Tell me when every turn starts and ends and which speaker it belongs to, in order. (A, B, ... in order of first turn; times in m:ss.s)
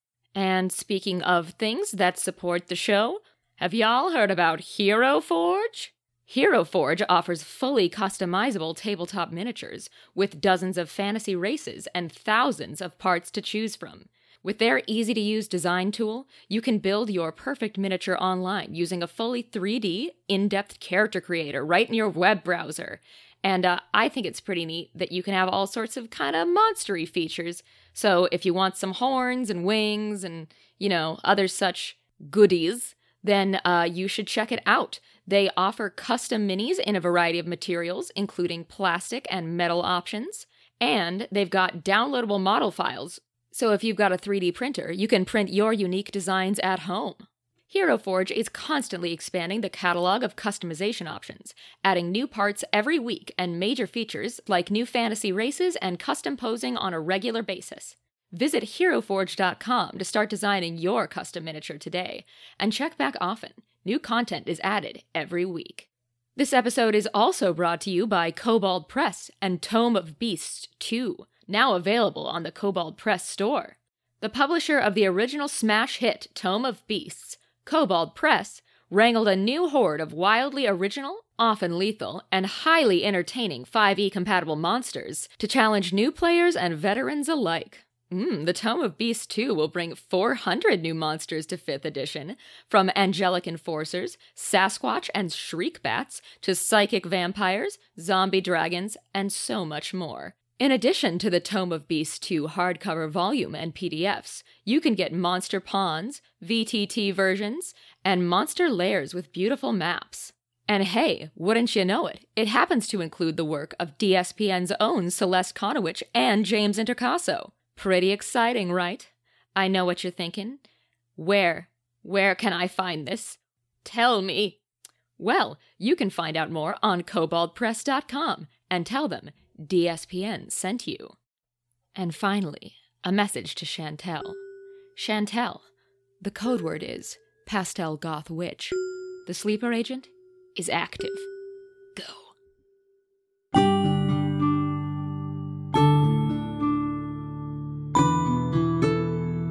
0:00.3-2:00.6 A
2:01.2-2:04.6 A
2:05.2-2:11.1 A
2:11.9-2:14.4 A
2:15.0-2:15.6 A
2:16.2-2:21.3 A
2:22.0-2:22.3 A